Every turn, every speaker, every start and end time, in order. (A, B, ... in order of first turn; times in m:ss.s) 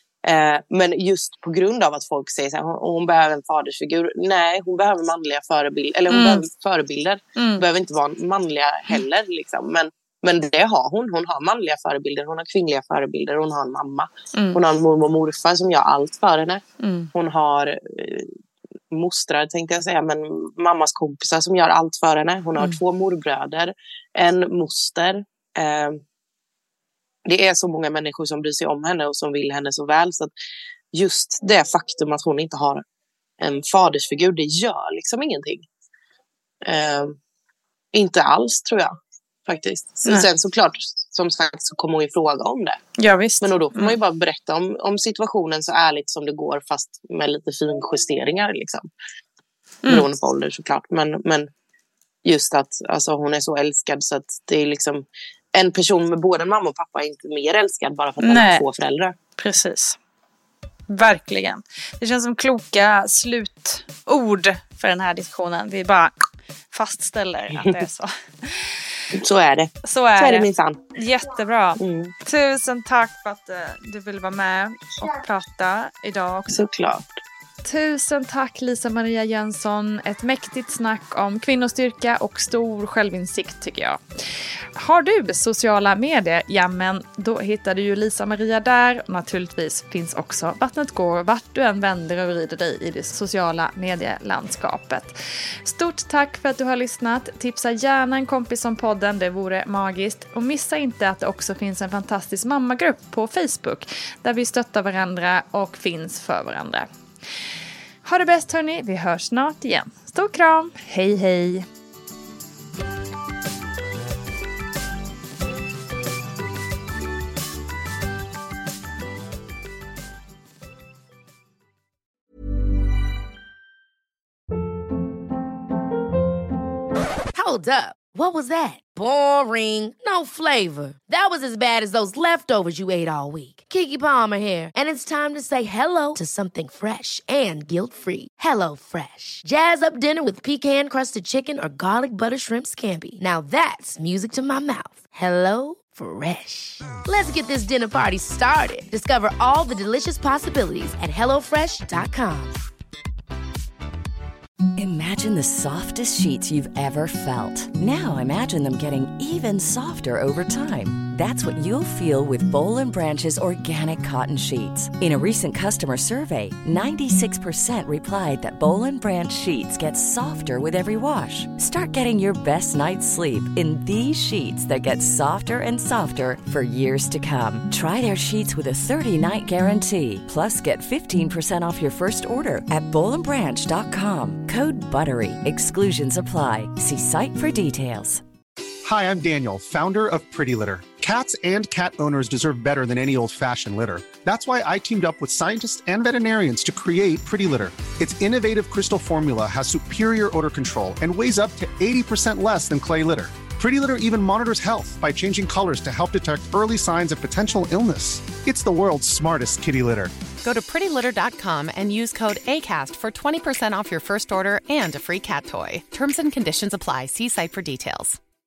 0:00.2-0:16.6 A
0:06.1-0:06.4 B
0:07.4-0:07.6 B
0:14.3-0:14.6 B
0:16.8-0:17.1 B
0:17.1-0:18.3 A
0:18.9-0:26.0 A
0:27.2-0:30.3 A
0:30.9-0:32.8 A
0:33.4-0:35.6 A
0:36.6-0:37.2 A
0:37.9-0:38.9 A
0:39.4-0:42.8 A
0:43.0-0:44.0 B
0:43.4-0:48.9 A
0:49.9-0:51.5 A
0:52.2-0:59.1 A
0:58.2-0:58.6 B
0:59.4-1:00.0 B
1:00.9-1:06.1 B
1:06.7-1:08.6 B
1:09.2-1:10.8 A
1:09.8-1:16.6 B
1:11.8-1:12.1 A
1:16.5-1:17.2 A
1:17.6-1:24.0 B
1:24.8-1:46.8 B
1:48.0-1:51.6 B
2:07.3-2:32.6 C
2:34.8-3:08.2 D
3:08.8-3:30.1 E
3:30.4-3:38.2 F